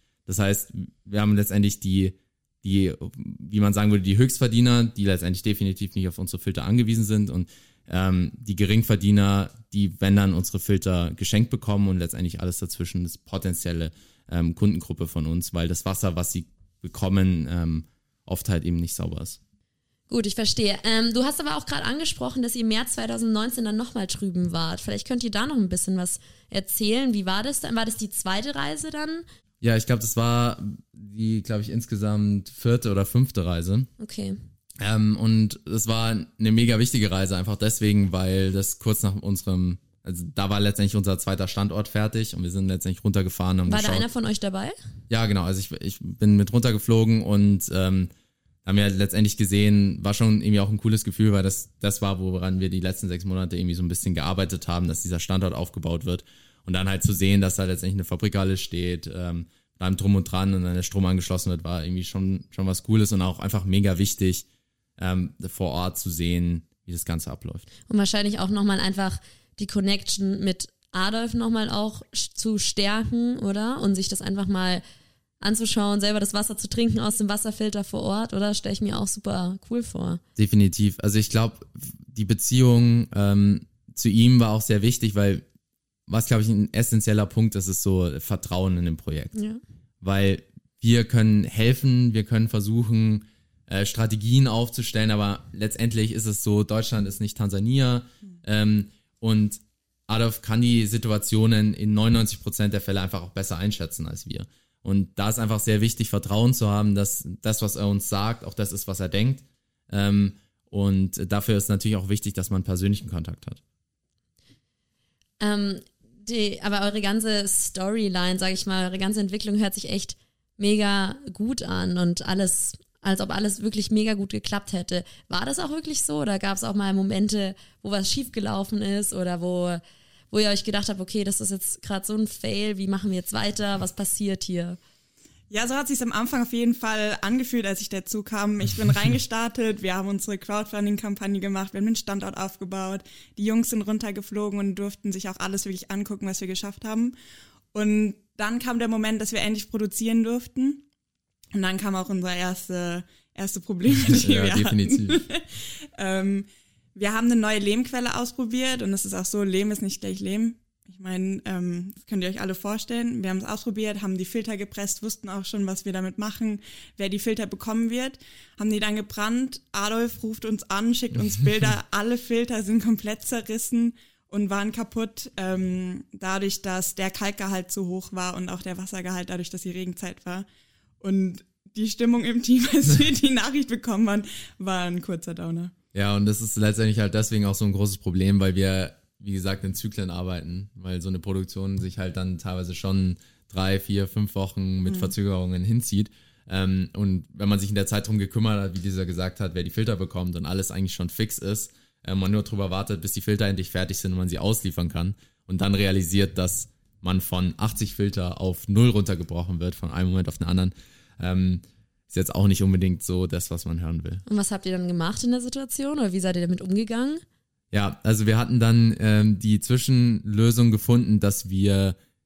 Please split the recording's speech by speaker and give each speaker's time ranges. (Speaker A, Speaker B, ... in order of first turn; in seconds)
Speaker A: 0.3-19.4, 29.6-33.9, 34.8-44.0, 45.1-48.1, 48.6-64.5, 65.0-67.6, 80.3-85.4, 86.1-89.3, 90.0-113.6, 154.0-155.2, 185.9-214.2, 217.7-221.9
Speaker B: 20.1-29.2, 34.0-34.4, 43.7-44.8, 67.9-74.8, 75.4-80.2, 89.3-89.6, 115.4-129.8, 130.3-134.8, 214.2-217.2
Speaker C: 135.5-147.1, 147.7-150.8, 151.5-180.4, 181.0-185.7, 194.8-195.1